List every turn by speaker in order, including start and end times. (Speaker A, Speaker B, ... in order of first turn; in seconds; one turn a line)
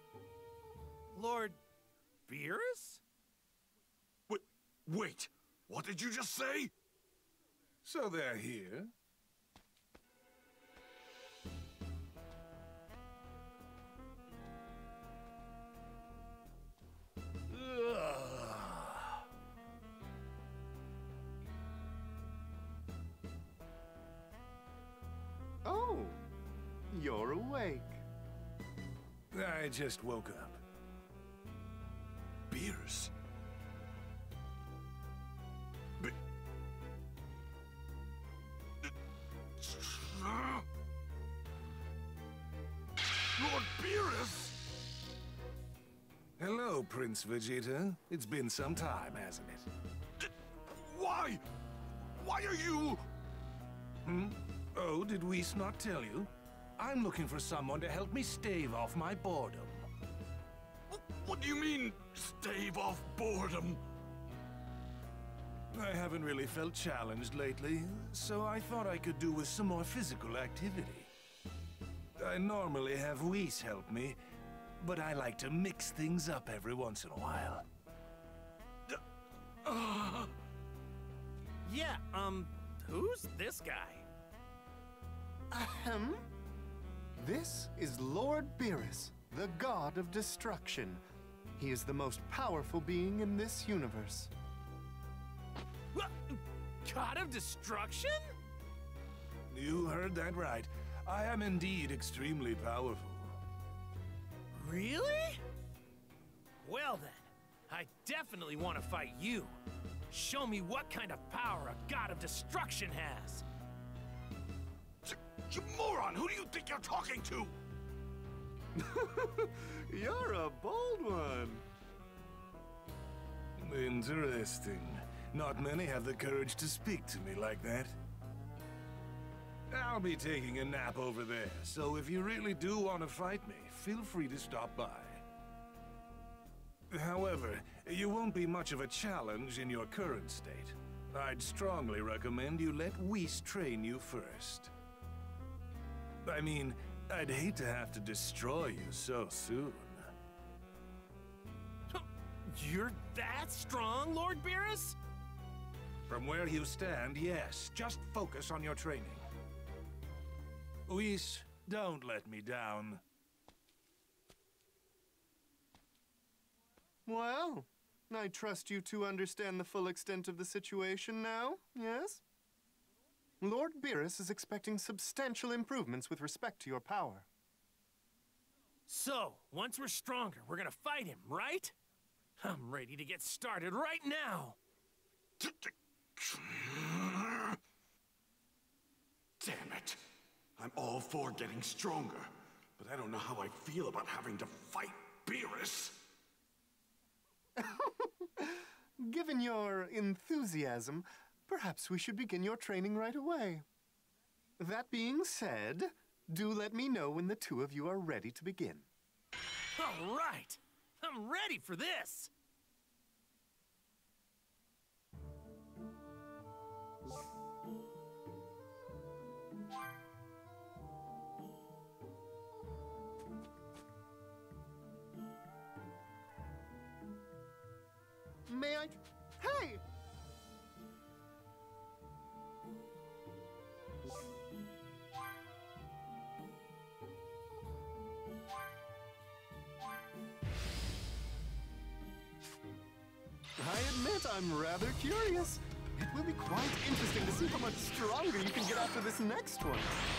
Speaker A: 1.1-1.6
Speaker A: 2.3-3.0
Speaker B: 4.3-6.7
Speaker C: 7.8-8.9
Speaker C: 17.5-19.1
Speaker D: 25.6-26.2
Speaker D: 26.9-28.0
Speaker C: 29.3-30.6
Speaker B: 32.5-33.1
Speaker B: 39.6-40.6
Speaker B: 43.3-44.6
Speaker C: 46.4-49.7
Speaker B: 50.2-51.5
Speaker B: 52.1-53.0
Speaker C: 54.0-59.8
Speaker B: 60.9-63.8
Speaker C: 65.7-71.1
Speaker C: 72.2-74.2
Speaker C: 74.8-77.7
Speaker A: 79.7-80.3
Speaker A: 81.7-84.1
Speaker D: 85.5-86.3
Speaker D: 87.2-91.0
Speaker D: 91.6-94.3
Speaker A: 95.9-98.3
Speaker C: 99.5-103.4
Speaker A: 104.5-105.4
Speaker A: 106.6-109.6
Speaker A: 110.1-113.4
Speaker B: 115.0-117.5
Speaker D: 118.8-121.7
Speaker C: 123.6-128.0
Speaker C: 129.7-135.2
Speaker C: 136.9-144.7
Speaker C: 146.2-150.1
Speaker A: 151.9-155.0
Speaker C: 156.1-159.2
Speaker C: 160.9-163.0
Speaker D: 167.1-172.2
Speaker D: 173.4-177.3
Speaker A: 178.9-181.8
Speaker A: 182.4-184.6
Speaker B: 185.4-187.6
Speaker B: 189.4-190.0
Speaker B: 190.6-196.0
Speaker D: 197.6-203.7
Speaker D: 204.6-208.9
Speaker A: 209.8-212.3
Speaker D: 228.5-229.8
Speaker D: 243.6-250.0